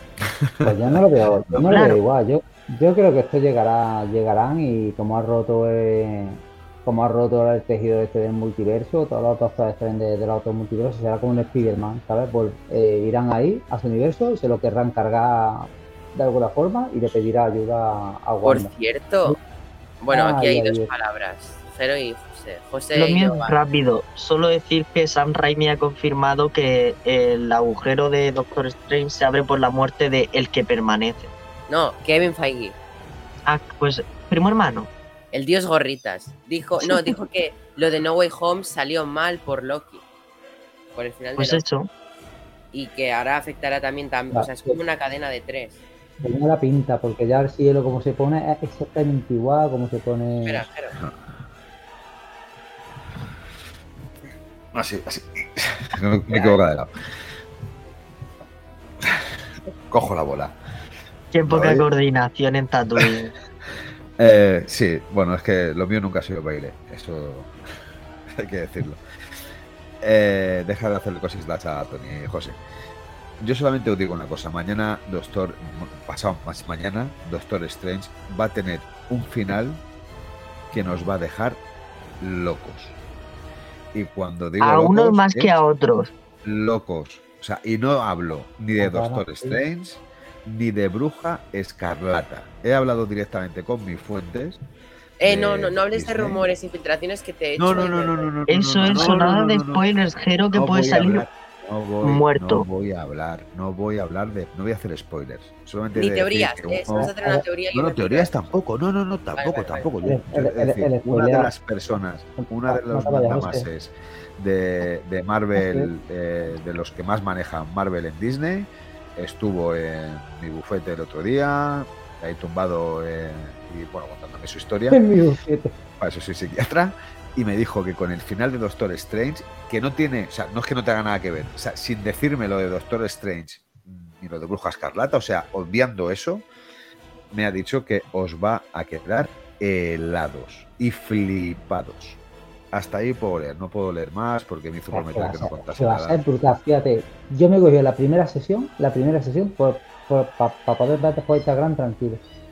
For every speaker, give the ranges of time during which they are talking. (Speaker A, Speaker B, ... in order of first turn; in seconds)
Speaker A: 0.5-1.8, 54.7-56.9, 59.9-60.6, 61.5-61.9, 64.2-67.5, 68.3-69.0, 70.0-72.6, 73.4-79.8, 80.7-81.6, 82.2-83.0, 83.9-85.6, 86.4-94.6, 95.2-96.4, 97.6-99.8, 100.5-107.1, 107.7-125.0, 126.0-136.4, 137.3-142.2, 142.7-146.3
Speaker B: 0.6-18.7, 20.1-20.9, 44.3-44.8, 46.2-50.7, 88.8-89.6, 110.0-111.5, 112.4-113.7, 115.6-115.9, 124.9-125.7, 144.9-152.2
Speaker C: 1.7-2.0, 22.9-31.3, 33.5-34.9, 36.9-37.1, 41.4-41.9, 61.3-63.3, 84.6-86.1, 98.5-101.2, 102.0-102.6
Speaker D: 18.4-19.4, 20.0-23.6, 31.7-32.8, 35.3-40.0, 41.0-41.6, 42.7-45.8, 50.5-51.0, 95.2-98.3, 106.0-108.3, 109.3-109.8